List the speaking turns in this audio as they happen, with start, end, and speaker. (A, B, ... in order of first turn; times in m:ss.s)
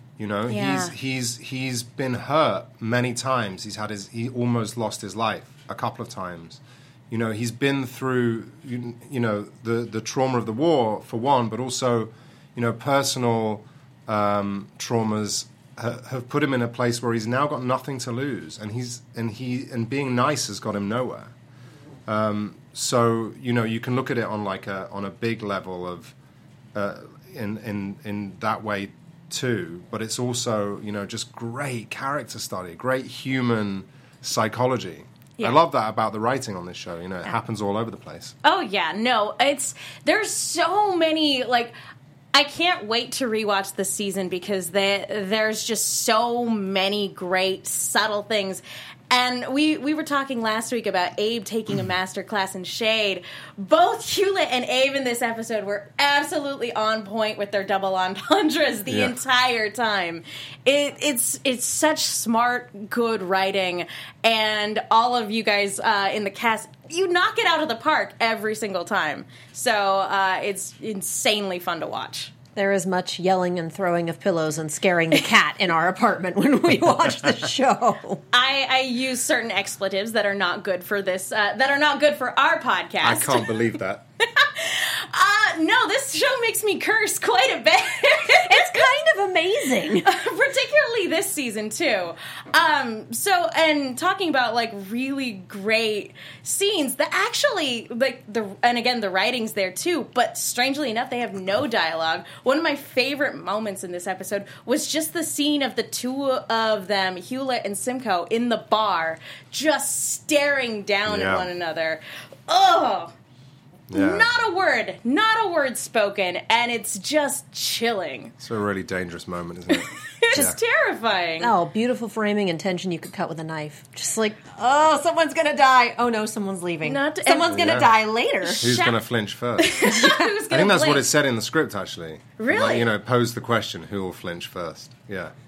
0:00.2-0:21.3 A
0:00.5-0:00.9 B
0:22.1-0:26.1 A
0:26.8-0:38.4 A
0:38.4-0:41.8 B
0:42.3-1:12.3 B
1:12.6-1:18.2 C
1:18.3-1:23.5 B
1:23.0-1:24.0 A
1:24.3-1:28.9 B
1:28.3-1:30.1 C
1:30.0-1:53.1 B
1:51.1-1:51.5 A
1:53.9-1:54.3 A
1:53.9-1:58.3 B
1:58.4-2:00.6 A
1:59.7-2:01.5 B
2:01.4-2:08.7 C
2:06.8-2:07.6 B
2:07.5-2:07.9 A
2:08.4-2:09.0 B
2:08.6-2:09.9 A
2:09.6-2:11.1 B
2:09.9-2:10.3 C
2:10.5-2:15.3 A
2:12.4-2:12.9 B